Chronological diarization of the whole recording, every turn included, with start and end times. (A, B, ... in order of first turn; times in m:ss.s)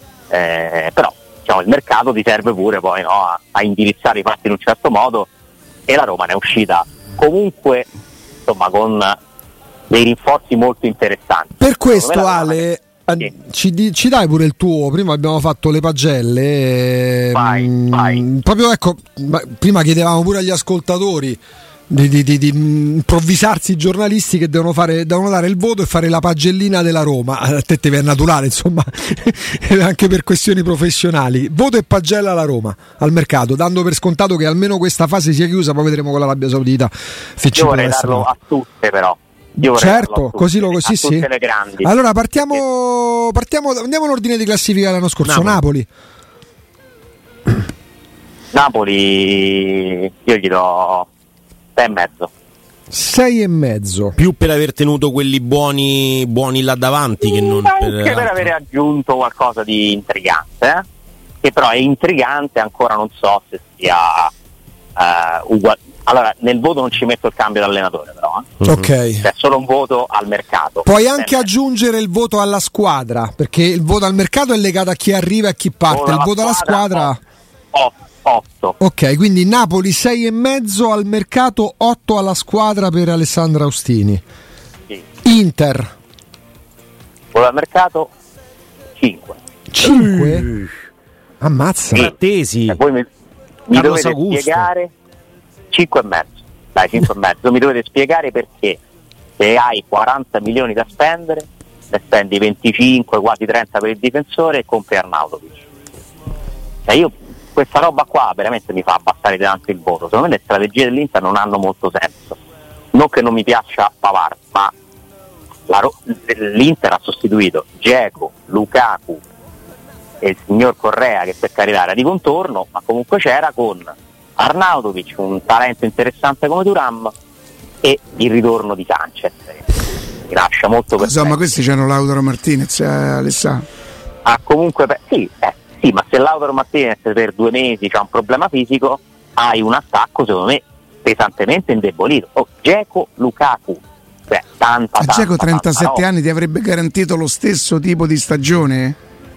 0:00.3-0:05.3 A
0:05.9-0:07.9 A
0:08.5-0:09.2 A
0:09.9-0:12.6 A
0:11.6-0:38.3 B
0:17.3-0:18.2 A
0:37.5-0:41.9 A
0:39.6-0:41.3 B
0:41.8-0:45.9 B
0:45.2-0:45.6 C
0:48.5-0:51.1 A
0:51.8-0:52.3 A
0:52.9-0:54.2 B
0:54.2-0:58.5 C
0:57.2-1:00.8 A
1:01.4-1:04.3 A
1:05.0-1:08.6 A
1:08.6-1:08.9 C
1:08.6-1:09.3 B
1:09.2-1:11.4 A
1:10.8-1:17.2 B
1:15.9-1:17.1 A
1:17.7-1:18.8 A
1:18.8-1:24.2 B
1:25.2-1:25.9 B
1:27.3-1:28.1 A
1:29.0-1:29.4 A
1:29.7-1:30.5 B
1:29.9-1:30.7 C
1:31.4-1:32.1 B
1:32.0-1:32.8 C
1:32.7-1:33.1 A
1:33.7-1:34.9 A
1:33.7-1:34.7 C
1:35.7-1:38.8 A
1:39.4-1:45.6 A
1:46.9-1:52.4 A
1:52.9-1:54.7 A
1:55.7-1:59.2 A
2:00.2-2:07.1 A
2:07.8-2:09.6 A
2:10.3-2:11.4 A
2:11.0-2:13.6 D
2:14.2-2:26.0 A
2:25.0-2:29.0 D